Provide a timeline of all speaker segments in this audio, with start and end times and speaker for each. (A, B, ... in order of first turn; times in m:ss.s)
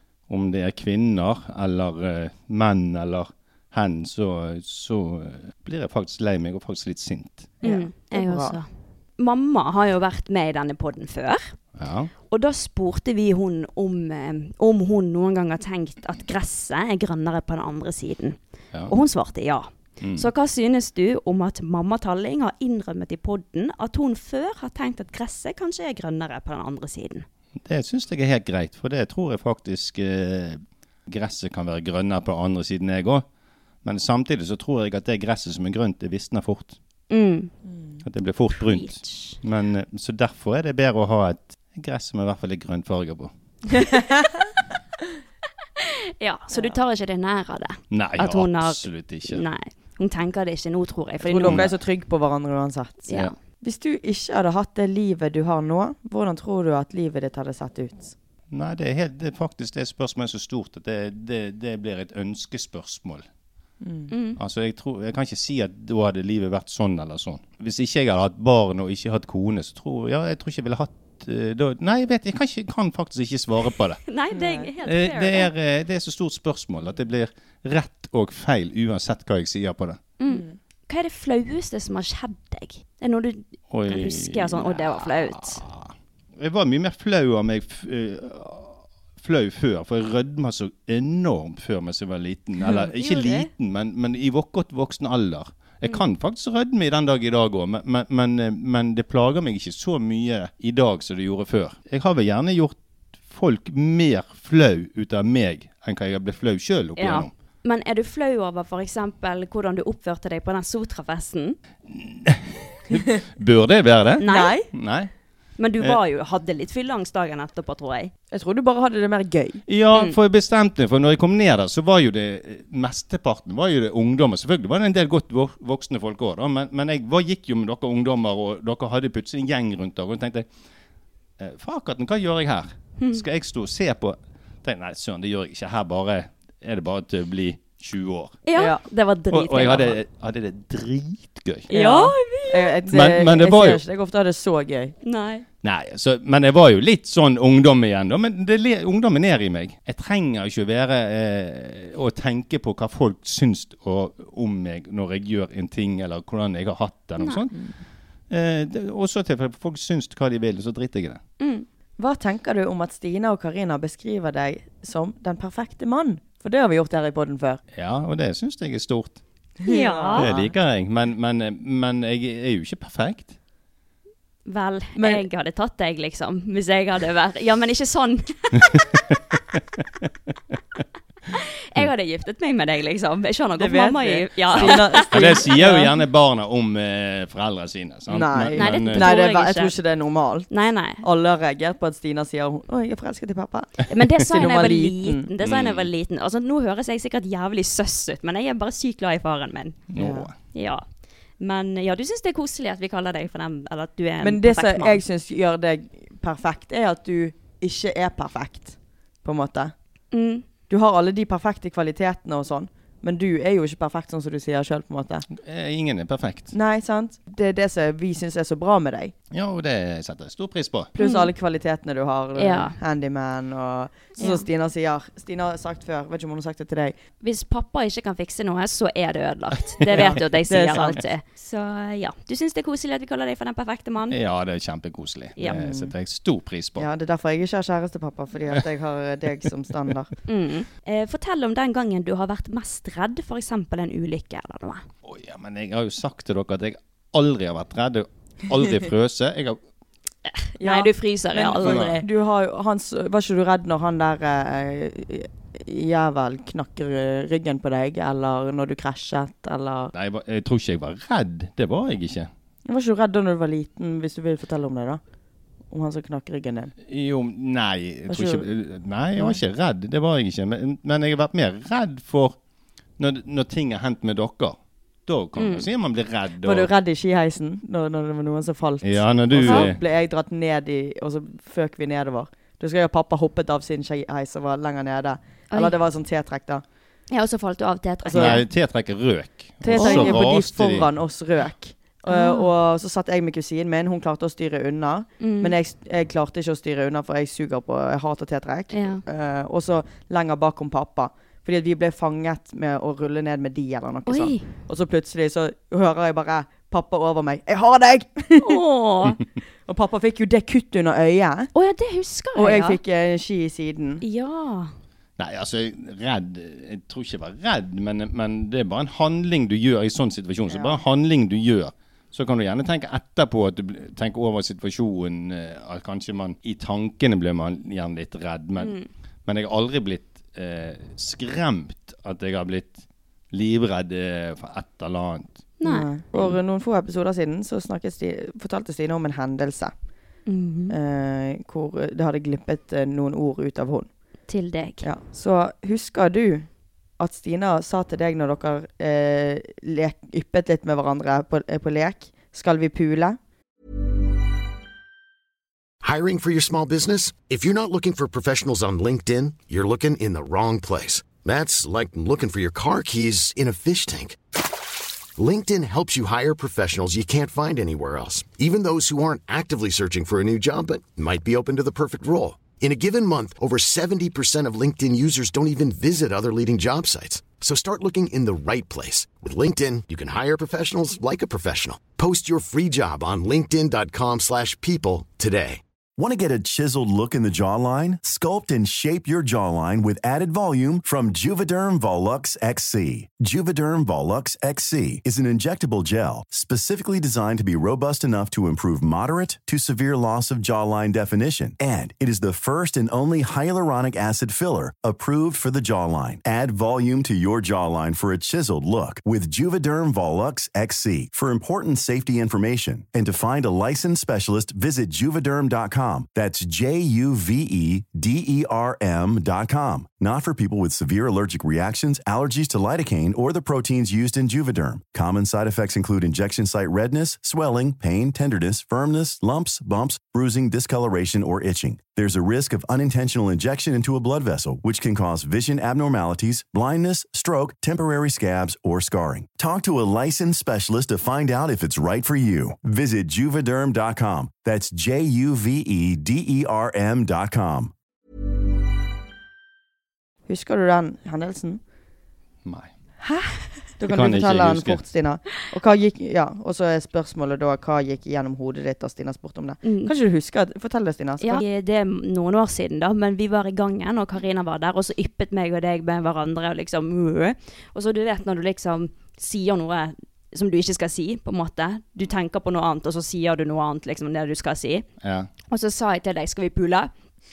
0:00.3-0:07.5 A
0:07.6-0:08.6 B
0:07.6-0:11.5 C
0:11.8-0:12.1 A
0:12.3-0:27.2 C
0:20.0-0:20.3 A
0:27.6-0:33.2 A
0:33.8-0:36.8 A
0:37.1-0:37.5 C
0:37.7-0:38.0 B
0:38.0-0:43.3 A
0:38.6-0:39.4 C
0:43.7-0:44.4 B
0:45.8-0:51.6 C
0:47.9-0:49.4 A
0:51.2-0:53.0 B
0:51.4-0:51.7 A
0:53.1-0:53.3 C
0:53.6-0:58.1 B
0:58.5-1:03.2 A
1:03.8-1:04.1 B
1:04.1-1:04.4 C
1:04.4-1:14.0 A
1:14.1-1:15.5 C
1:14.3-1:14.7 B
1:14.8-1:20.0 A
1:20.2-1:25.6 C
1:20.3-1:20.6 B
1:23.7-1:42.8 A
1:32.6-1:33.5 C
1:43.3-1:47.3 A
1:47.0-1:51.6 C
1:51.9-1:55.1 A
1:54.2-1:54.6 C
1:54.2-1:54.7 B
1:55.6-1:58.1 C
1:58.3-1:59.6 B
1:59.7-2:10.5 A
2:11.4-2:18.4 A
2:18.4-2:20.0 C
2:18.6-2:18.8 B
2:19.3-2:21.7 A
2:21.7-2:22.7 C
2:21.7-2:24.9 B
2:22.9-2:23.8 A
2:25.0-2:25.4 C
2:25.6-2:37.6 A
2:37.2-2:37.4 C
2:38.3-2:41.2 A
2:41.4-2:41.7 C
2:42.0-2:47.6 B
2:47.7-2:49.2 A
2:49.6-2:50.5 B
2:49.6-2:50.3 C
2:50.2-2:53.3 A
2:54.4-2:58.9 C
2:55.0-2:55.2 B
3:01.3-3:05.4 C
3:03.6-3:05.9 B
3:04.6-3:09.1 A
3:08.1-3:15.3 B
3:08.5-3:09.8 C
3:10.5-3:11.0 C
3:13.9-3:19.8 C
3:15.4-3:15.9 A
3:19.9-3:20.3 A
3:20.0-3:20.3 B
3:20.5-3:20.8 C
3:21.4-3:25.0 C
3:24.2-3:29.7 B
3:30.1-3:30.4 C
3:30.7-3:35.3 B
3:35.3-3:36.5 A
3:36.5-3:39.1 B
3:39.3-3:40.9 A
3:41.0-3:47.0 B
3:41.0-3:41.3 C
3:42.4-3:42.8 C
3:44.2-3:44.4 C
3:47.2-3:54.2 C
3:49.8-3:50.1 A
3:49.9-3:51.0 B
3:54.1-3:56.9 A
3:55.4-3:55.6 C
3:55.4-3:55.9 B
3:56.8-4:00.1 B
4:00.3-4:04.8 C
4:05.0-4:09.6 A
4:10.2-4:12.0 C
4:10.6-4:19.9 B
4:11.6-4:11.9 A
4:19.9-4:22.3 A
4:22.7-4:25.0 B
4:25.7-4:26.7 B
4:26.9-4:32.4 A
4:28.1-4:28.4 B
4:33.0-4:36.7 A
4:35.4-4:35.7 C
4:36.4-4:46.6 B
4:38.8-4:39.8 A
4:39.4-4:39.7 C
4:45.5-4:45.8 C
4:47.1-4:48.4 C
4:48.0-4:48.4 B
4:48.1-4:50.9 A
4:49.6-5:08.6 B
4:49.7-4:50.2 C
4:52.1-4:52.5 C
4:55.2-4:55.5 C
4:58.7-4:59.0 C
5:04.0-5:04.5 C
5:08.4-5:09.2 C
5:09.6-5:11.5 B
5:11.5-5:12.8 C
5:12.3-5:14.0 B
5:14.0-5:14.7 C
5:15.2-5:35.4 A
5:20.5-5:20.8 B
5:28.6-5:28.9 C
5:35.6-5:36.4 C
5:35.6-5:39.7 B
5:40.2-5:40.7 C
5:40.7-5:43.9 B
5:44.3-5:44.8 C
5:44.8-5:53.2 B
5:55.8-6:04.2 D
6:05.2-6:25.6 D
6:26.0-7:27.7 E
7:30.3-7:31.6 B
7:32.4-7:32.7 A
7:33.0-7:41.4 B
7:33.9-7:34.8 A
7:39.6-7:39.9 C
7:41.2-7:54.8 C
7:55.0-7:55.3 A
7:55.5-7:56.9 C